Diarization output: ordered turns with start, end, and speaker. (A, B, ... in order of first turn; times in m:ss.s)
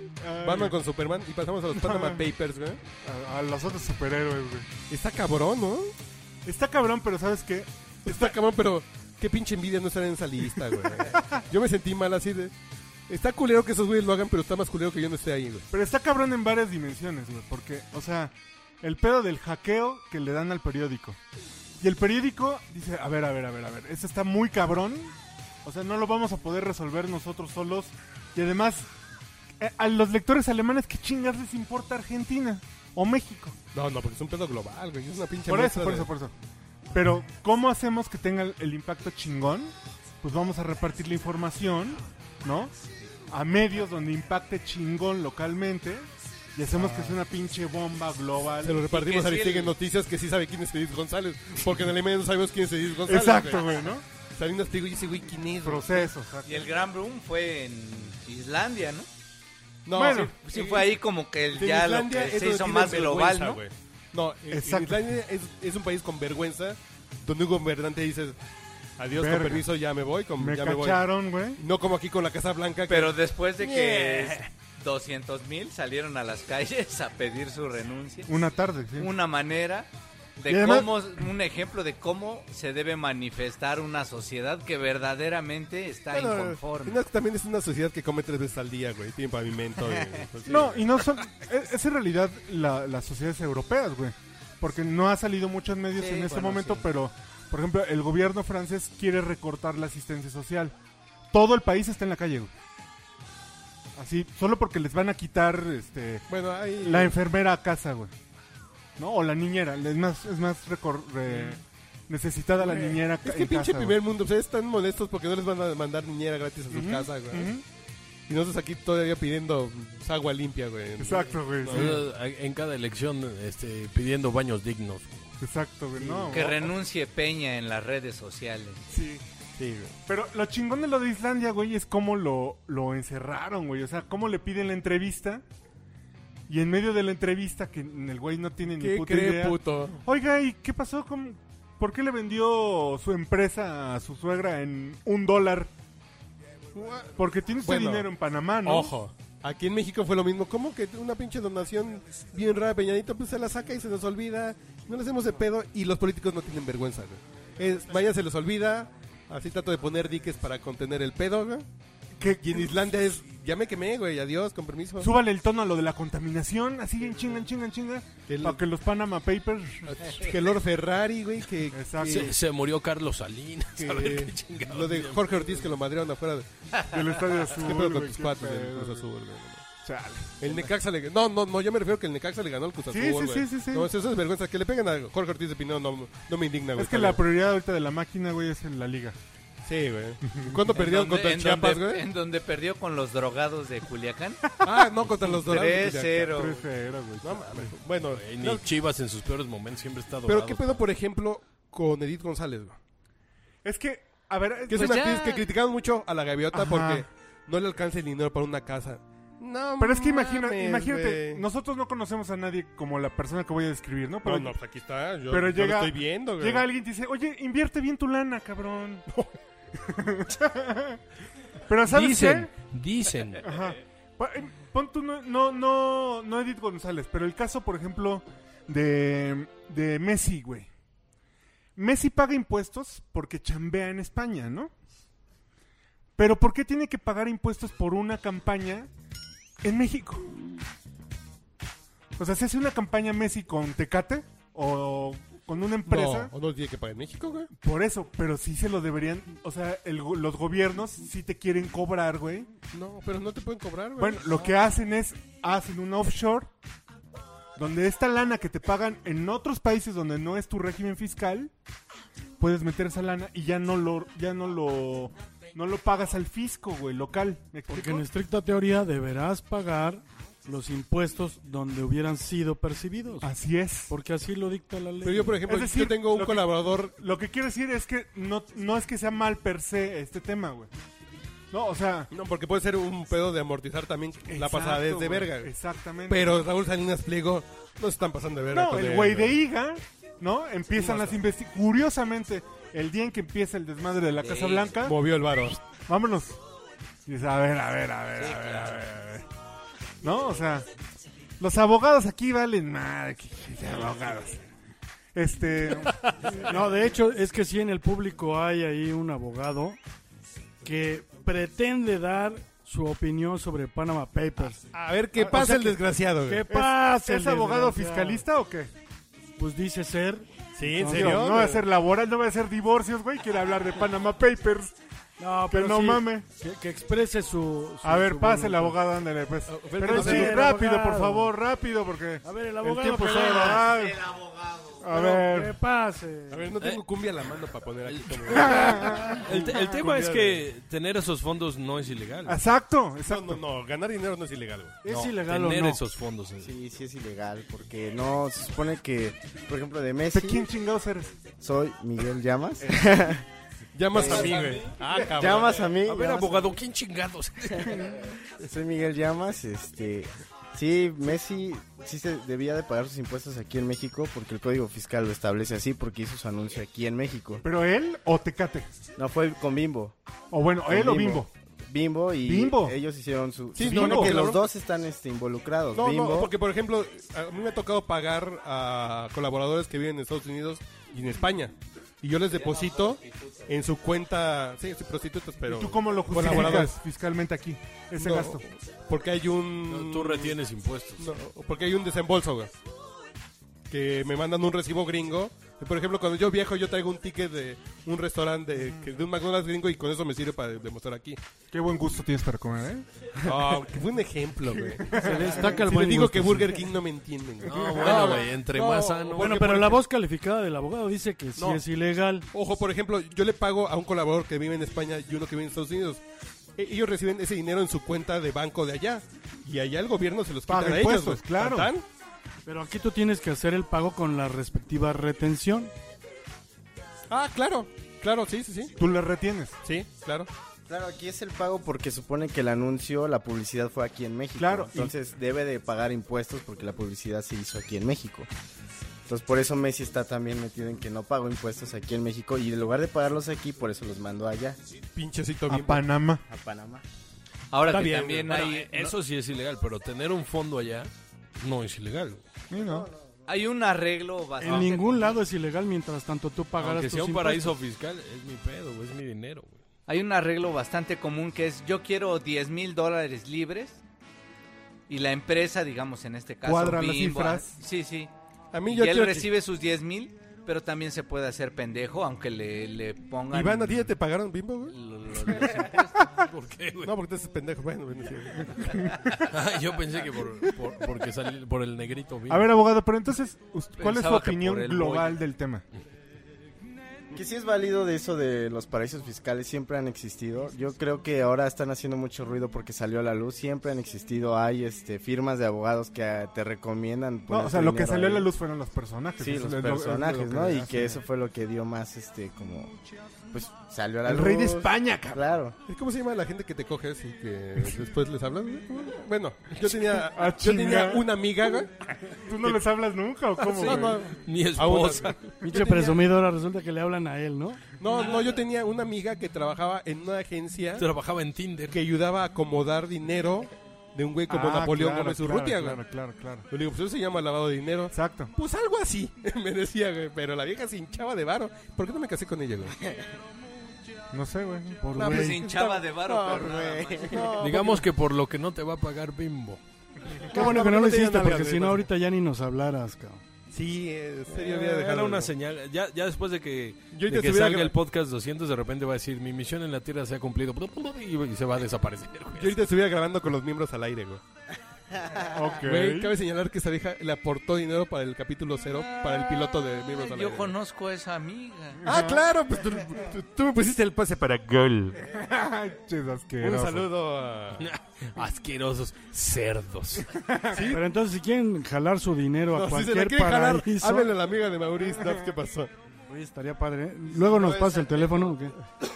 0:00.2-0:00.8 A
0:00.4-0:02.8 B
0:01.7-0:02.3 A
0:03.0-0:04.7 A
0:04.9-0:05.9 B
0:06.4-0:08.4 A
0:08.1-0:12.5 B
0:10.8-0:11.3 A
0:13.1-0:15.7 B
0:15.7-0:21.2 A
0:21.8-0:28.9 A
0:29.6-0:33.6 A
0:33.7-0:36.1 B
0:35.5-0:36.3 A
0:36.9-0:42.7 A
0:43.3-0:48.8 A
0:48.6-0:56.1 B
0:48.9-0:49.8 C
0:53.0-0:54.0 A
0:55.6-0:56.7 A
0:56.4-0:59.1 C
0:59.9-1:08.4 B
0:59.9-1:00.3 A
1:00.0-1:03.6 C
1:04.5-1:05.2 A
1:09.0-1:14.5 B
1:09.1-1:09.7 A
1:10.4-1:11.6 A
1:12.9-1:18.4 C
1:18.3-1:19.1 A
1:19.0-1:27.0 C
1:20.5-1:21.3 A
1:26.1-1:31.0 B
1:30.4-1:40.8 A
1:36.0-1:36.8 C
1:41.3-1:42.5 A
1:44.0-1:46.3 A
1:46.3-1:47.2 B
1:46.8-1:48.1 A
1:49.0-1:54.0 A
1:51.3-1:51.6 B
1:52.6-1:57.6 B
1:56.7-1:57.6 A
1:58.3-2:02.0 B
2:01.0-2:02.0 A
2:01.7-2:05.3 D
2:05.4-2:06.7 A
2:06.2-2:06.5 B
2:06.3-2:08.9 C
2:08.9-2:09.2 A
2:09.6-2:10.0 B
2:10.1-2:15.4 A
2:16.5-2:25.7 A
2:18.8-2:20.0 B
2:26.7-2:28.1 B
2:27.2-2:28.9 A
2:28.6-2:41.6 B
2:42.2-2:42.9 A
2:42.4-2:45.1 B
2:45.0-2:49.9 A
2:48.3-2:48.6 B
2:49.9-2:52.3 B
2:51.7-2:52.3 A
2:52.0-2:55.3 D
2:53.8-2:56.5 B
2:56.9-2:59.1 A
2:57.5-2:59.6 B
2:59.8-3:00.6 A
3:00.4-3:07.2 B
3:02.9-3:03.9 A
3:06.8-3:09.2 A
3:09.6-3:12.1 B
3:10.3-3:10.6 A
3:10.7-3:14.4 C
3:14.6-3:16.4 B
3:15.2-3:16.6 C
3:16.3-3:17.7 A
3:17.2-3:18.6 B
3:18.1-3:20.8 D
3:20.3-3:22.8 B
3:23.6-3:25.2 A
3:24.7-3:31.4 B
3:24.7-3:25.4 C
3:26.5-3:27.1 A
3:29.8-3:34.6 A
3:34.2-3:36.7 B
3:35.3-3:39.1 A
3:39.8-3:41.0 A
3:41.7-3:42.5 A
3:41.9-3:43.4 D
3:43.4-3:50.7 A
3:51.8-3:54.7 A
3:56.2-3:58.9 A
3:59.6-4:00.3 A
4:02.2-4:06.3 A
4:05.9-4:07.5 B
4:07.6-4:12.5 A
4:12.7-4:14.5 B
4:14.0-4:16.5 A
4:17.6-4:21.5 A
4:22.4-4:28.0 A
4:27.7-4:33.3 E
4:33.2-4:33.9 A
4:33.9-4:35.4 E
4:35.0-4:37.0 B
4:35.5-4:40.7 A
4:41.5-4:42.1 A
4:42.1-4:45.5 B
4:44.3-4:46.5 A
4:46.1-4:49.4 B
4:48.5-4:55.0 A
4:50.8-4:51.2 B
4:54.2-4:54.7 C
4:54.8-4:55.6 B
4:55.9-4:56.4 A
4:57.1-4:59.3 A
4:58.2-4:58.8 C
5:00.0-5:00.7 A
5:01.4-5:04.4 A
5:05.2-5:06.3 A
5:06.3-5:09.8 E
5:10.6-5:14.6 E
5:14.7-5:16.4 B
5:15.2-5:15.8 A
5:16.3-5:18.2 E
5:16.5-5:18.7 A
5:19.4-5:21.2 E
5:20.6-5:21.6 B
5:20.8-5:24.8 A
5:25.2-5:28.8 E
5:25.5-5:26.3 A
5:27.8-5:34.1 A
5:29.5-5:30.5 B
5:29.8-5:31.3 E
5:32.2-5:33.8 E
5:33.9-5:34.8 C
5:34.8-5:35.6 A
5:34.9-5:36.5 E
5:36.3-5:40.4 B
5:37.9-5:42.4 D
5:38.3-5:39.3 A
5:42.3-5:43.4 A
5:43.1-5:44.8 B
5:44.8-5:45.8 E
5:44.9-5:46.5 D
5:46.4-5:50.5 F
5:50.1-5:51.2 A
5:51.3-5:53.3 F
5:52.6-5:52.9 A
5:53.8-5:55.7 B
5:53.9-5:56.5 F
5:55.8-5:57.9 D
5:58.4-6:07.4 F
6:07.4-6:08.7 A
6:09.0-6:10.0 F
6:10.3-6:11.3 A
6:10.7-6:16.3 F
6:12.2-6:12.8 A
6:13.6-6:14.5 B
6:13.6-6:14.2 A
6:15.7-6:26.8 B
6:22.4-6:23.4 C
6:25.5-6:28.4 A
6:28.0-6:30.4 B
6:29.7-6:31.1 D
6:31.0-6:32.5 B
6:33.7-6:41.2 B
6:41.5-6:43.4 A
6:43.2-6:49.8 B
6:44.7-6:45.3 A
6:44.9-6:46.6 E
6:47.5-6:49.5 D
6:49.2-6:52.3 E
6:51.4-6:51.6 B
6:52.3-6:56.0 B
6:56.6-7:01.8 B
7:00.5-7:01.7 A
7:02.5-7:05.7 E
7:07.1-7:08.7 B
7:08.8-7:09.6 A
7:09.6-7:10.3 B
7:10.7-7:18.3 F
7:14.4-7:14.9 A
7:19.1-7:24.6 F
7:25.0-7:25.9 B
7:25.5-7:26.2 A
7:26.3-7:26.8 F
7:27.5-7:29.0 C
7:27.7-7:28.3 B
7:27.7-7:32.3 D
7:32.5-7:32.9 A
7:32.6-7:33.1 F
7:33.3-7:35.2 C
7:34.4-7:37.6 E
7:36.6-7:39.6 D
7:39.9-7:43.8 C
7:44.9-7:48.1 C
7:46.4-7:47.6 A
7:48.5-7:49.3 B
7:48.7-7:53.9 C
7:53.3-7:54.8 B
7:54.7-7:56.9 D
7:55.1-7:55.9 C
7:56.8-7:59.0 B
7:59.3-8:02.5 D
8:02.3-8:05.6 A
8:03.8-8:05.2 C
8:07.1-8:18.3 F
8:17.3-8:21.0 A
8:19.2-8:22.8 F
8:23.3-8:25.6 F
8:24.0-8:25.2 A
8:25.7-8:31.7 B
8:29.7-8:31.1 A
8:32.2-8:34.0 A
8:33.4-8:35.9 B
8:33.5-8:35.4 D
8:35.4-8:37.6 E
8:37.8-8:40.9 B
8:40.8-8:41.8 D
8:41.7-8:45.8 B
8:44.3-8:46.5 A
8:46.5-8:52.8 B
8:47.9-8:48.3 A
8:54.1-8:54.8 A
8:54.8-8:55.4 E
8:55.0-8:56.5 B
8:55.0-8:57.4 C
8:56.1-8:57.6 F
8:57.1-8:57.8 B
8:57.4-8:59.6 D
9:00.2-9:01.9 B
9:00.3-9:03.2 E
9:03.5-9:05.3 B
9:04.3-9:12.6 D
9:06.9-9:07.8 B
9:12.4-9:14.2 B
9:15.3-9:16.1 A
9:15.6-9:20.6 B
9:20.0-9:21.8 C
9:21.8-9:22.3 A
9:21.9-9:25.0 B
9:25.1-9:26.9 A
9:26.4-9:27.7 B
9:27.6-9:30.1 D
9:30.1-9:30.8 A
9:30.6-9:34.1 E
9:32.5-9:35.7 B
9:36.1-9:38.6 E
9:37.2-9:38.2 C